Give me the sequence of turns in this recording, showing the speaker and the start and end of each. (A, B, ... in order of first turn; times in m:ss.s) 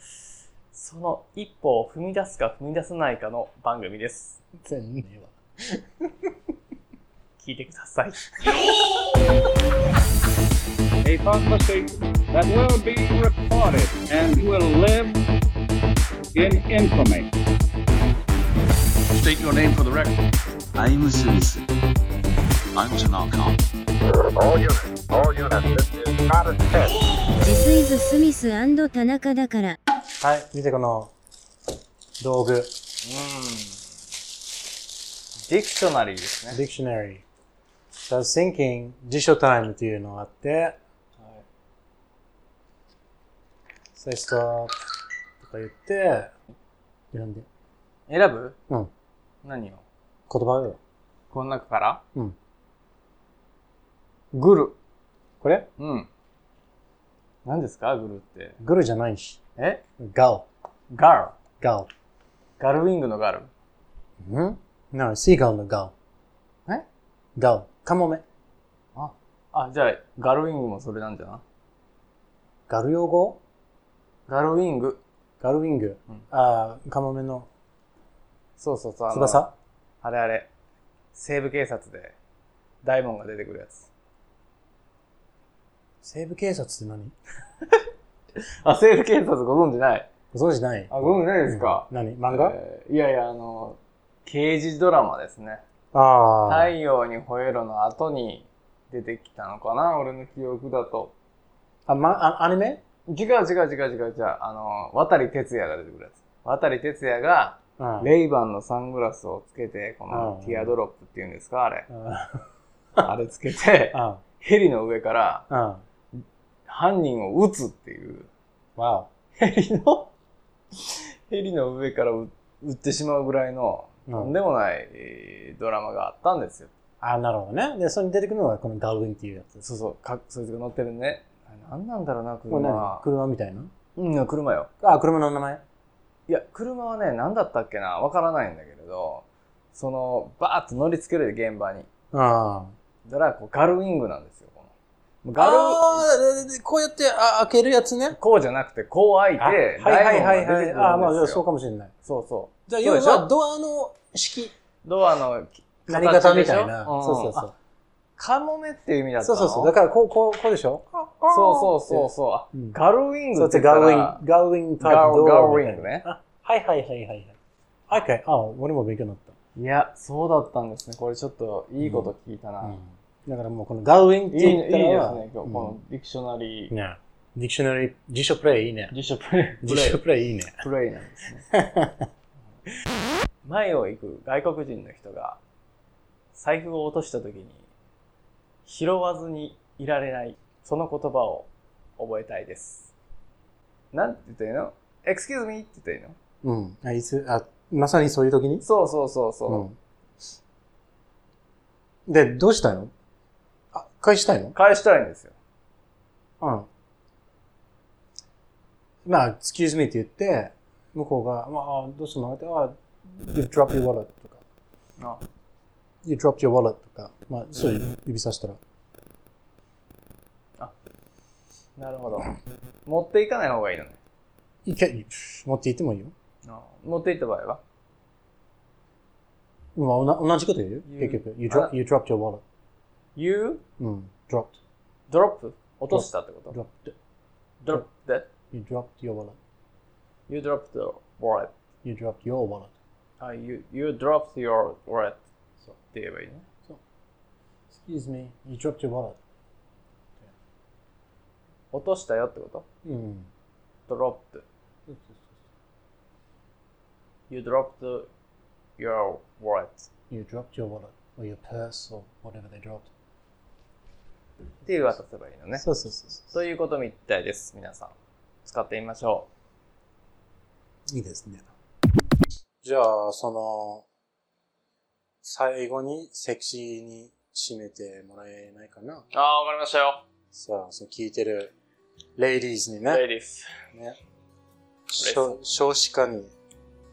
0:00.7-0:04.4 A
0:04.6-0:06.3 B
0:07.4-0:08.6 A
0:11.0-0:15.2 C
0:16.4-0:17.3 C
0:19.1-0:20.2 D
0:20.8-0:21.7 D
0:22.7-0:23.6 D
0:24.4-0:26.7 C
0:27.4-0:29.8 E
0:30.2-0:31.1 B
0:32.2-0:32.7 B
0:33.0-0:33.8 A
0:35.5-0:36.6 A
0:36.5-0:37.2 B
0:38.1-0:40.8 B
0:41.2-0:41.4 A
0:44.0-0:44.7 B
0:45.4-0:46.3 B
0:47.1-0:47.5 B
0:48.1-0:48.6 A
0:49.4-0:49.8 A
0:50.3-0:50.8 B
0:51.3-0:52.0 A
0:54.3-0:54.8 A
0:55.4-0:55.7 B
0:55.8-0:56.1 A
0:57.4-0:58.6 A
0:58.6-0:59.4 B
0:59.6-0:59.8 A
1:00.0-1:00.5 B
1:00.9-1:01.4 A
1:01.6-1:01.9 B
1:02.6-1:03.5 A
1:04.2-1:05.9 B
1:07.4-1:08.2 B
1:09.0-1:11.4 A
1:12.7-1:13.4 B
1:14.3-1:15.0 A
1:15.4-1:17.5 B
1:18.6-1:19.4 A
1:19.1-1:19.5 B
1:20.0-1:20.5 A
1:21.1-1:22.2 A
1:22.8-1:23.9 A
1:26.0-1:27.1 B
1:28.6-1:30.1 A
1:30.3-1:30.9 B
1:30.9-1:35.6 A
1:31.4-1:32.6 B
1:35.9-1:36.7 B
1:36.5-1:41.1 A
1:41.9-1:42.8 B
1:43.1-1:51.9 A
1:47.8-1:48.1 B
1:50.1-1:50.8 B
1:51.9-1:52.4 B
1:53.0-1:55.5 A
1:53.9-1:54.2 B
1:55.5-1:55.8 B
1:56.7-1:58.3 A
1:58.8-1:59.1 B
1:59.4-2:00.1 A
2:00.8-2:06.7 A
2:04.1-2:04.3 B
2:07.0-2:09.6 B
2:09.6-2:13.0 A
2:12.5-2:13.7 B
2:14.0-2:14.7 A
2:14.8-2:15.6 B
2:16.3-2:21.9 A
2:22.1-2:22.7 B
2:23.0-2:26.1 A
2:25.4-2:28.2 B
2:28.1-2:31.4 A
2:29.4-2:31.9 B
2:32.0-2:33.3 A
2:32.7-2:34.5 B
2:34.8-2:37.5 A
2:35.9-2:37.5 B
2:38.2-2:39.7 A
2:39.2-2:42.8 B
2:41.3-2:44.2 A
2:43.4-2:47.4 B
2:44.8-2:46.1 A
2:47.9-2:49.3 B
2:49.6-2:52.8 A
2:51.8-2:55.8 B
2:54.3-2:56.7 A
2:56.7-2:58.9 B
2:58.9-3:00.0 A
2:59.6-3:00.6 B
3:00.6-3:01.4 A
3:01.5-3:02.1 B
3:03.4-3:05.4 A
3:06.3-3:07.7 A
3:08.6-3:12.9 A
3:13.9-3:16.2 A
3:16.4-3:18.6 B
3:18.6-3:19.6 A
3:19.5-3:19.8 B
3:22.1-3:22.9 B
3:23.7-3:24.6 B
3:24.5-3:25.4 A
3:26.4-3:26.7 B
3:29.1-3:34.4 B
3:35.0-3:35.2 A
3:36.0-3:38.6 B
3:41.8-3:42.3 A
3:42.9-3:44.0 A
3:44.6-3:46.1 B
3:46.4-3:47.6 A
3:49.8-3:52.4 B
3:50.9-3:51.7 A
3:53.2-3:53.6 A
3:53.8-3:54.6 B
3:55.1-3:56.6 A
3:55.9-3:57.0 B
3:57.6-3:58.3 A
3:58.5-3:59.4 B
4:00.3-4:01.5 A
4:01.8-4:02.7 B
4:03.2-4:05.2 A
4:05.8-4:06.4 A
4:07.7-4:09.2 B
4:11.7-4:12.6 A
4:12.8-4:13.3 B
4:13.9-4:14.4 A
4:14.9-4:15.4 B
4:17.3-4:18.1 A
4:18.8-4:19.9 A
4:20.1-4:22.9 B
4:24.6-4:25.7 A
4:25.6-4:26.4 B
4:26.3-4:29.3 A
4:30.9-4:31.5 B
4:32.6-4:33.9 B
4:35.2-4:39.0 B
4:39.1-4:40.0 A
4:40.3-4:41.5 B
4:42.2-4:43.0 B
4:42.9-4:43.5 A
4:44.9-4:46.3 B
4:45.0-4:45.4 A